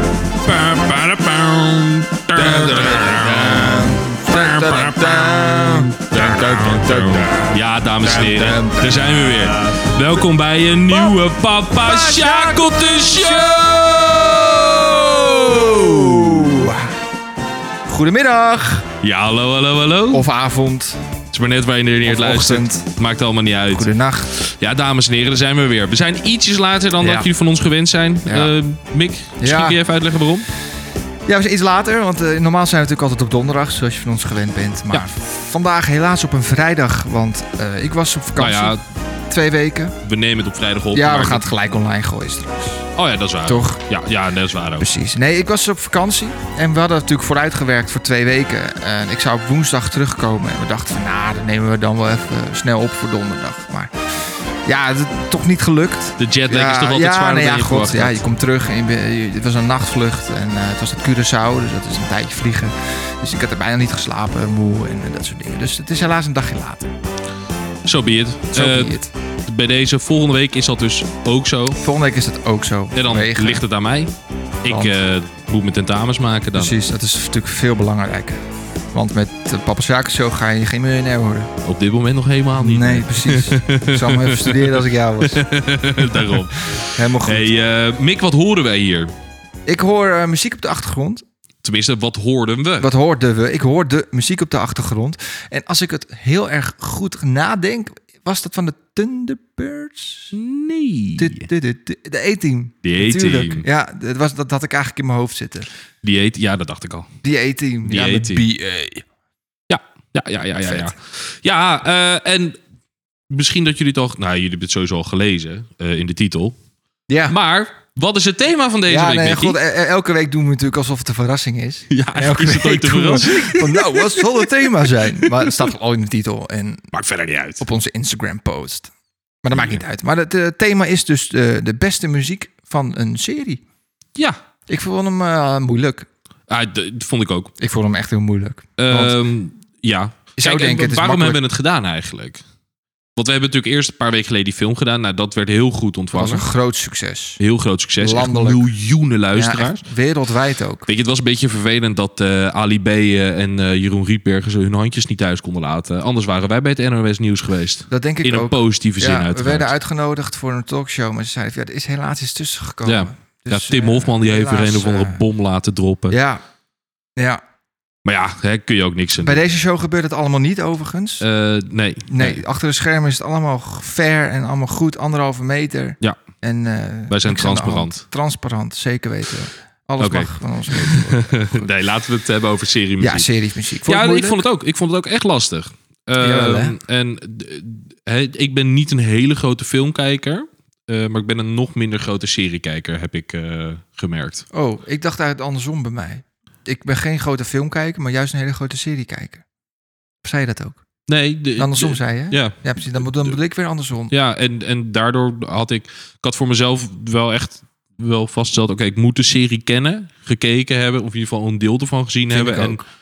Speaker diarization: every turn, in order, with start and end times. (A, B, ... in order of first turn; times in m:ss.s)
0:00.4-0:16.3 A
0:02.3-0:09.9 B
0:10.9-0:11.2 B
0:11.7-0:16.9 B
0:17.8-0:18.9 B
0:19.0-0:20.3 A
0:20.1-0:21.0 B
0:21.3-0:30.5 A
0:22.0-0:22.9 B
0:23.7-0:24.3 B
0:27.0-0:27.3 B
0:28.2-0:28.6 B
0:29.4-0:29.8 B
0:31.3-0:40.0 B
0:38.4-0:38.8 A
0:40.0-0:41.5 A
0:40.9-0:42.9 B
0:43.0-0:44.9 A
0:43.5-0:43.8 B
0:44.8-1:06.9 B
0:56.2-0:58.2 A
1:07.8-1:11.8 A
1:08.5-1:09.1 B
1:11.8-1:13.6 B
1:12.9-1:16.7 A
1:14.7-1:15.0 B
1:16.5-1:21.5 B
1:21.6-1:29.1 A
1:22.6-1:25.4 B
1:26.0-1:27.5 B
1:29.7-1:31.2 B
1:31.6-1:32.9 A
1:32.8-1:40.3 B
1:40.3-1:41.5 A
1:41.2-1:45.7 B
1:42.8-1:43.7 A
1:46.0-1:47.1 A
1:47.2-1:49.0 B
1:47.8-1:48.4 A
1:49.7-1:52.6 A
1:50.6-1:50.9 B
1:53.3-1:56.6 A
1:57.1-1:57.4 B
1:57.3-1:59.6 A
1:58.9-2:06.9 B
2:01.9-2:05.7 A
2:06.9-2:07.6 A
2:07.6-2:08.9 B
2:09.4-2:13.6 B
2:09.5-2:09.8 A
2:14.7-2:16.1 B
2:16.5-2:17.5 A
2:17.6-2:19.2 B
2:18.8-2:22.4 A
2:20.4-2:21.4 B
2:23.2-2:26.5 A
2:26.1-2:27.4 B
2:27.4-2:29.8 A
2:28.0-2:28.6 B
2:29.3-2:30.9 B
2:30.9-2:39.7 A
2:37.9-2:45.2 B
2:42.8-2:46.2 A
2:46.1-2:46.4 B
2:47.2-2:47.4 B
2:48.0-2:49.4 A
2:49.2-2:51.2 B
2:51.2-2:52.4 A
2:52.1-3:01.7 B
2:57.1-2:58.0 A
3:00.0-3:03.3 A
3:03.0-3:04.4 B
3:03.8-3:14.4 A
3:06.2-3:06.8 B
3:14.5-3:19.4 B
3:20.2-3:20.8 B
3:21.1-3:23.3 A
3:21.6-3:24.1 B
3:24.1-3:32.8 A
3:32.3-3:32.8 B